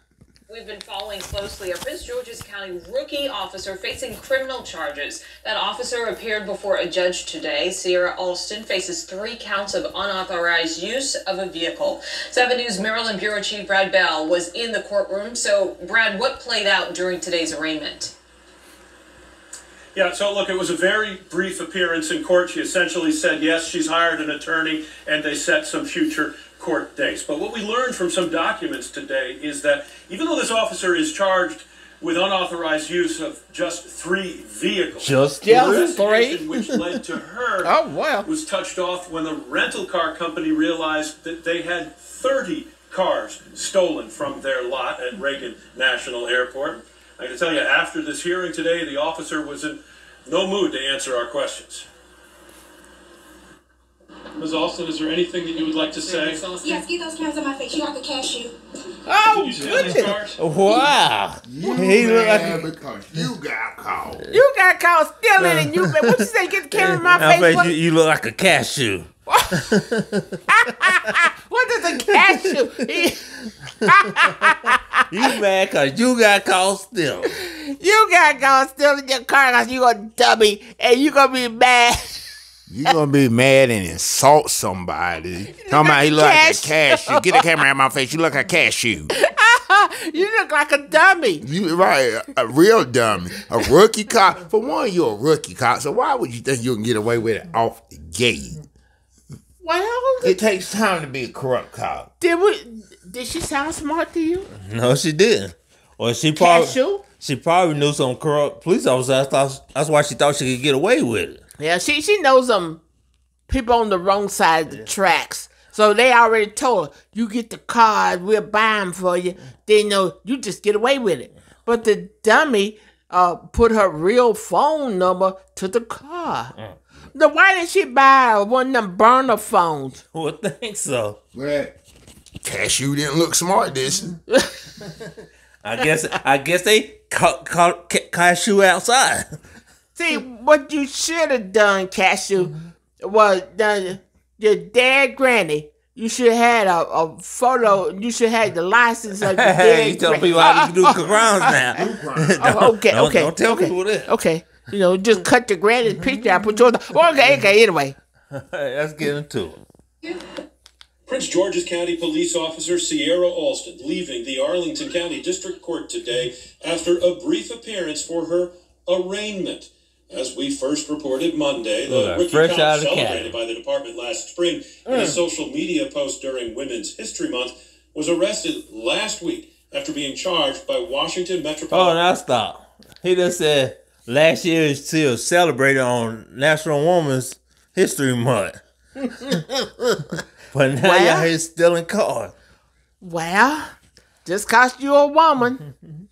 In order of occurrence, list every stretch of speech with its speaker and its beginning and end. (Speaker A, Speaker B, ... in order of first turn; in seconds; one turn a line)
Speaker A: 0.5-18.1
Speaker B: 19.9-37.7
Speaker C: 35.0-35.9
Speaker D: 35.4-36.4
Speaker D: 37.6-38.3
Speaker B: 38.2-51.9
Speaker B: 54.4-56.5
Speaker A: 55.6-56.5
Speaker E: 56.6-58.5
Speaker D: 59.1-60.1
Speaker B: 59.1-60.4
Speaker C: 60.4-62.7
Speaker F: 61.4-64.2
Speaker D: 64.3-67.7
Speaker C: 65.4-71.2
Speaker D: 69.3-69.8
Speaker D: 70.5-73.3
Speaker C: 72.0-73.1
Speaker C: 73.8-74.4
Speaker D: 73.8-75.1
Speaker C: 75.1-77.4
Speaker D: 77.3-82.4
Speaker F: 82.7-89.1
Speaker D: 85.7-87.5
Speaker D: 89.1-91.4
Speaker F: 91.4-98.6
Speaker D: 99.6-100.4
Speaker F: 100.2-102.1
Speaker D: 102.2-104.5
Speaker C: 104.6-111.4
Speaker D: 106.4-107.0
Speaker D: 111.6-112.8
Speaker D: 113.5-126.5
Speaker D: 127.1-130.0
Speaker C: 130.1-131.2
Speaker F: 131.3-131.8
Speaker F: 132.4-134.2
Speaker D: 134.3-134.6
Speaker C: 135.6-139.3
Speaker D: 139.9-151.7
Speaker C: 149.2-154.1
Speaker F: 151.7-152.7
Speaker D: 152.4-158.0
Speaker C: 158.3-159.6
Speaker B: 161.1-182.0
Speaker C: 171.8-173.4
Speaker D: 174.9-175.2
Speaker C: 181.7-188.6
Speaker C: 190.5-192.3
Speaker D: 190.8-191.3
Speaker D: 193.0-193.7
Speaker D: 194.2-195.6